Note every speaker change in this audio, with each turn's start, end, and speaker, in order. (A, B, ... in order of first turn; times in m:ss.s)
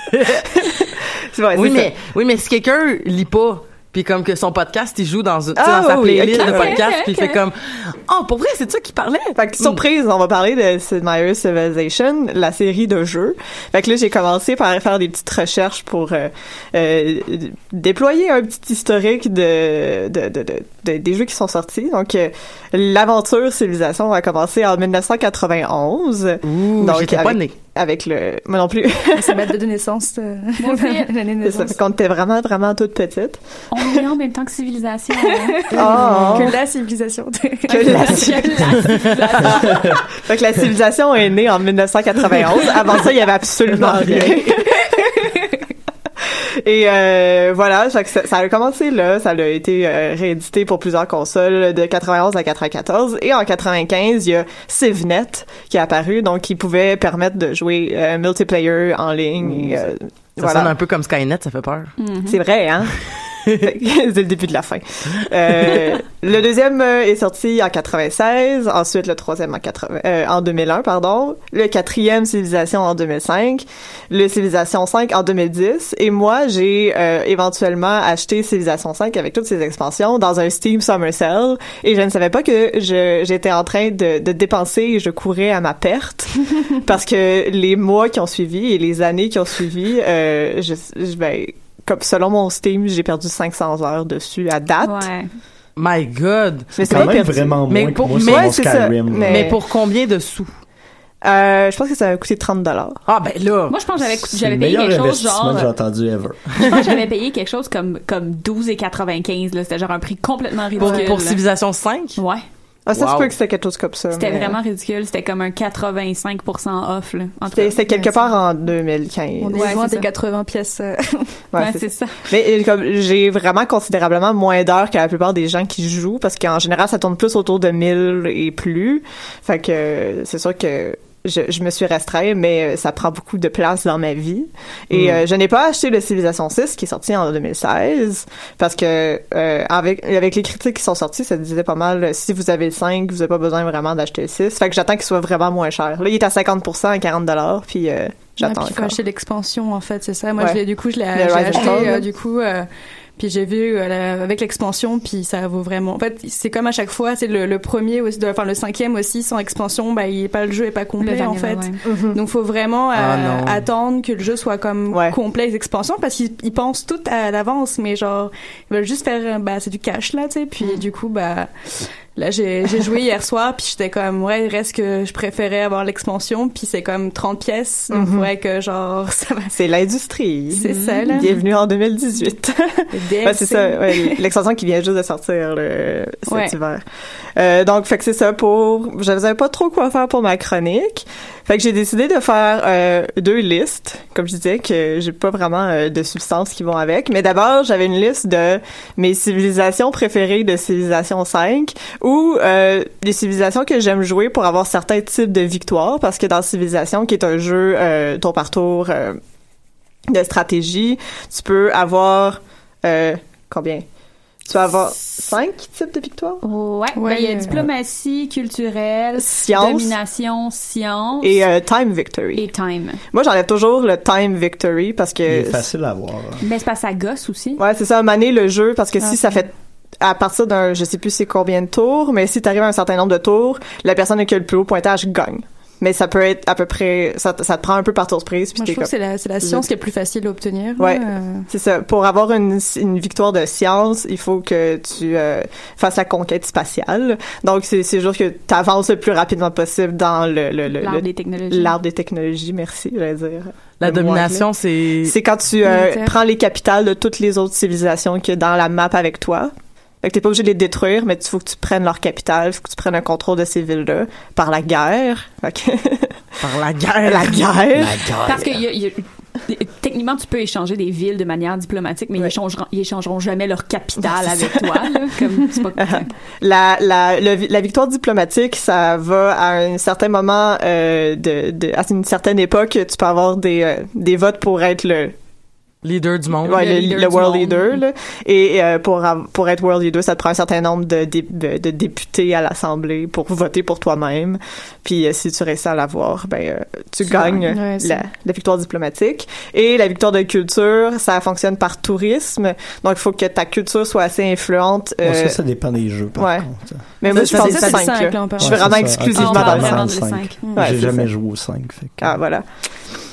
0:00.1-0:00.4 A
0:00.5-0:01.9 B
0:01.5-0:09.8 A
0:05.6-0:06.8 B
0:06.4-0:07.4 C
0:09.4-0:29.5 B
0:26.4-0:27.5 A
0:29.2-0:31.8 D
0:30.6-0:31.1 C
0:31.4-0:33.9 B
0:33.7-0:36.5 C
0:35.3-0:38.4 D
0:35.7-0:36.6 B
0:37.7-0:40.0 C
0:37.7-0:38.6 B
0:38.8-0:39.2 A
0:39.4-0:45.0 B
0:43.7-0:44.4 A
0:46.6-1:00.7 B
1:00.4-1:02.0 A
1:02.0-1:02.4 C
1:02.2-1:35.1 B
1:34.8-1:35.3 C
1:35.8-1:40.5 A
1:36.8-1:39.6 B
1:36.8-1:39.5 E
1:41.2-1:43.0 B
1:43.1-1:43.8 A
1:43.7-1:45.7 C
1:44.0-1:46.4 E
1:46.6-1:51.4 C
1:50.8-1:52.2 A
1:52.2-1:52.4 C
1:52.9-1:54.6 B
1:52.9-1:53.3 A
1:54.1-1:58.2 C
1:57.5-1:59.8 B
1:59.4-2:01.4 D
1:59.6-2:00.1 C
2:01.5-2:29.0 B
2:01.6-2:02.2 C
2:14.9-2:15.2 A
2:28.4-2:59.6 D
2:31.1-2:32.1 B
2:31.6-2:32.0 C
2:41.0-2:41.8 C
2:41.8-2:42.2 B
2:42.9-2:43.7 A
2:57.9-2:58.3 B
2:59.5-3:06.8 B
3:00.5-3:01.4 D
3:00.6-3:01.3 C
3:02.9-3:04.2 D
3:06.3-3:06.6 D
3:07.4-3:29.2 B
3:30.1-3:33.8 B
3:34.5-3:36.4 B
3:36.4-3:41.5 C
3:37.0-3:37.5 D
3:39.2-3:40.0 B
3:41.2-3:42.4 B
3:42.3-3:43.0 C
3:43.1-3:45.6 B
3:45.3-3:46.4 E
3:46.4-3:47.6 C
3:47.6-3:58.9 B
3:49.0-3:49.4 D
3:58.6-4:01.5 D
3:59.4-3:59.7 B
4:00.8-4:14.5 B
4:10.7-4:11.8 C
4:13.8-4:15.2 A
4:15.0-4:26.2 B
4:15.6-4:16.2 D
4:26.4-4:27.5 A
4:27.0-4:28.0 B
4:27.8-4:28.6 E
4:28.3-4:36.1 C
4:34.1-4:34.7 B
4:35.8-4:45.2 B
4:45.8-4:46.6 A
4:46.4-5:05.4 B
4:46.5-4:47.8 C
4:57.1-4:58.0 D
5:05.0-5:06.8 E
5:06.2-5:11.3 B
5:07.1-5:09.0 D
5:07.1-5:08.0 A
5:08.4-5:12.2 E
5:09.1-5:10.4 C
5:10.4-5:10.9 D
5:12.0-5:12.7 B